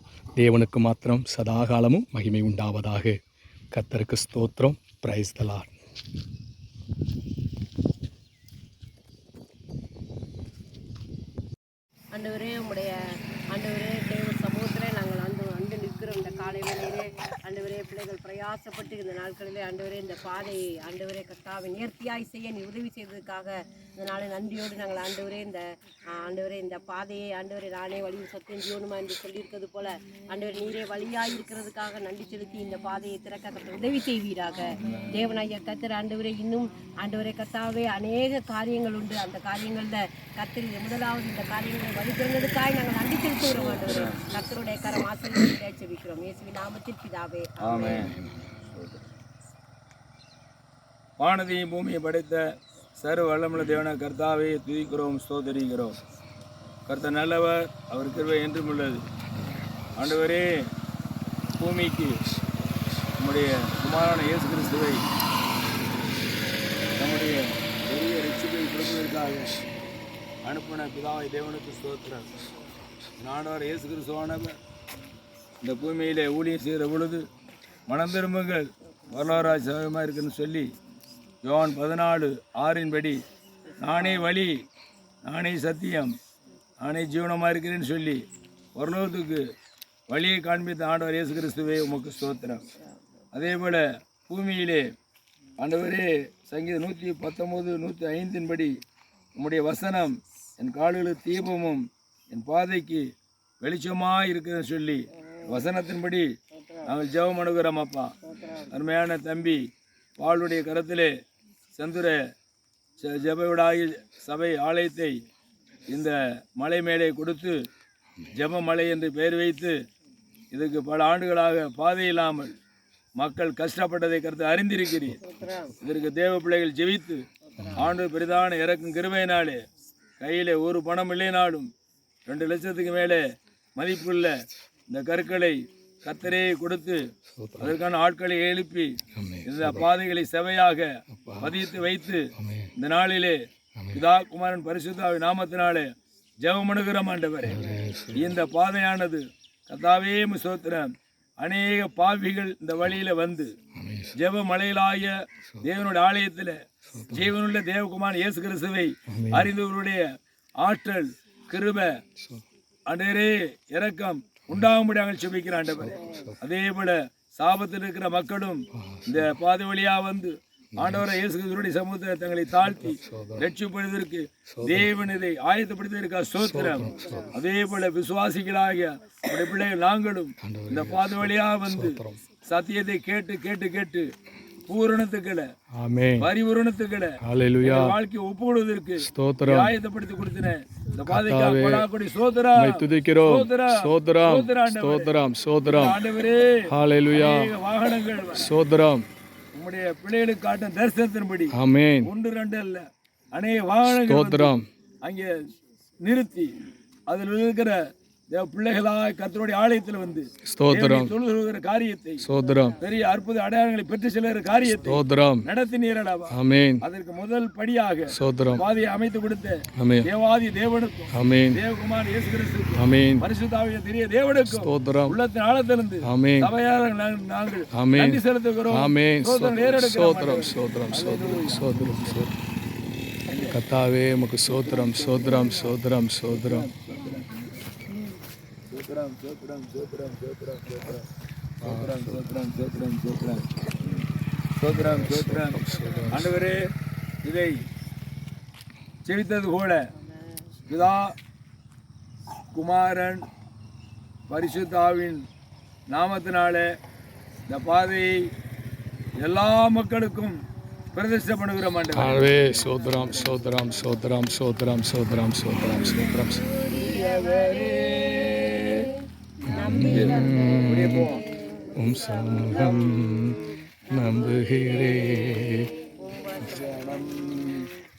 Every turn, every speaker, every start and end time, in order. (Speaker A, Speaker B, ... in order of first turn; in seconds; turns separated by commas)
Speaker A: 0.4-3.2, Speaker A: 3.7-5.7, Speaker B: 12.1-13.0, Speaker B: 13.5-48.2, Speaker C: 43.5-44.2, Speaker C: 47.6-48.2, Speaker C: 51.2-52.5, Speaker C: 53.0-56.0, Speaker C: 56.9-59.0, Speaker C: 60.0-60.5, Speaker C: 61.6-62.2, Speaker C: 63.2-65.1, Speaker C: 67.0-69.5, Speaker C: 70.4-72.4, Speaker C: 73.2-74.6, Speaker C: 75.6-77.3, Speaker C: 77.9-80.7, Speaker C: 81.4-83.2, Speaker C: 83.8-84.6, Speaker C: 85.2-86.1, Speaker C: 86.8-88.2, Speaker C: 88.8-89.5, Speaker C: 90.1-92.7, Speaker C: 93.3-94.9, Speaker C: 95.6-98.7, Speaker C: 99.4-103.1, Speaker C: 103.6-106.3, Speaker C: 106.8-108.2, Speaker C: 108.7-111.1, Speaker C: 111.8-112.2, Speaker C: 113.0-115.2, Speaker C: 115.9-117.6, Speaker C: 118.3-119.8, Speaker C: 120.5-122.5, Speaker C: 123.2-125.2, Speaker B: 125.3-125.7, Speaker C: 125.8-127.2, Speaker A: 127.6-127.9, Speaker C: 127.8-129.6, Speaker C: 130.2-131.7, Speaker C: 132.3-133.2, Speaker C: 133.8-137.1, Speaker A: 137.3-137.8, Speaker C: 137.6-143.4, Speaker A: 139.1-139.9, Speaker A: 141.1-141.8, Speaker A: 142.3-142.7, Speaker A: 143.8-144.0, Speaker C: 143.9-145.9, Speaker C: 146.4-147.6, Speaker A: 147.4-148.3, Speaker C: 148.1-153.5, Speaker A: 153.8-154.2, Speaker C: 154.2-156.6, Speaker A: 156.9-157.3, Speaker C: 157.1-160.1, Speaker A: 159.1-159.5, Speaker C: 160.6-162.0, Speaker C: 162.9-184.1, Speaker A: 165.8-166.4, Speaker A: 168.7-169.3, Speaker A: 170.8-171.2, Speaker A: 172.7-173.5, Speaker A: 174.5-174.9, Speaker A: 176.4-177.3, Speaker A: 180.4-182.2, Speaker C: 184.7-185.5, Speaker A: 185.8-186.3, Speaker C: 186.2-195.1, Speaker A: 187.2-187.9, Speaker A: 189.0-189.7, Speaker A: 191.0-191.8, Speaker A: 192.6-196.0, Speaker C: 195.7-198.5, Speaker A: 196.7-197.5, Speaker A: 198.3-199.1, Speaker C: 199.5-205.4, Speaker A: 201.5-202.1, Speaker A: 203.9-204.7, Speaker C: 206.0-206.5, Speaker C: 207.1-212.2, Speaker A: 210.4-211.1, Speaker A: 212.2-212.8, Speaker C: 212.8-232.2, Speaker A: 214.8-215.5, Speaker A: 216.3-216.8, Speaker A: 218.1-218.7, Speaker A: 219.8-220.1, Speaker A: 221.1-221.6, Speaker A: 222.8-223.3, Speaker A: 224.5-225.2, Speaker A: 226.0-226.5, Speaker A: 227.8-232.3, Speaker C: 233.3-233.6, Speaker A: 233.5-236.7, Speaker C: 234.5-235.7, Speaker C: 236.3-237.3, Speaker C: 238.7-241.1, Speaker C: 241.6-244.1, Speaker A: 241.6-242.2, Speaker C: 244.6-246.6, Speaker A: 244.7-246.4, Speaker C: 247.2-247.6, Speaker C: 249.1-249.9, Speaker C: 250.7-251.2, Speaker C: 252.5-253.3, Speaker C: 254.3-255.2, Speaker C: 255.9-256.7, Speaker C: 257.5-258.2, Speaker C: 259.2-260.4, Speaker C: 260.9-262.4, Speaker A: 261.9-266.5, Speaker C: 266.6-268.9, Speaker A: 269.5-271.1, Speaker C: 269.6-271.2, Speaker A: 271.8-275.7, Speaker C: 276.4-277.7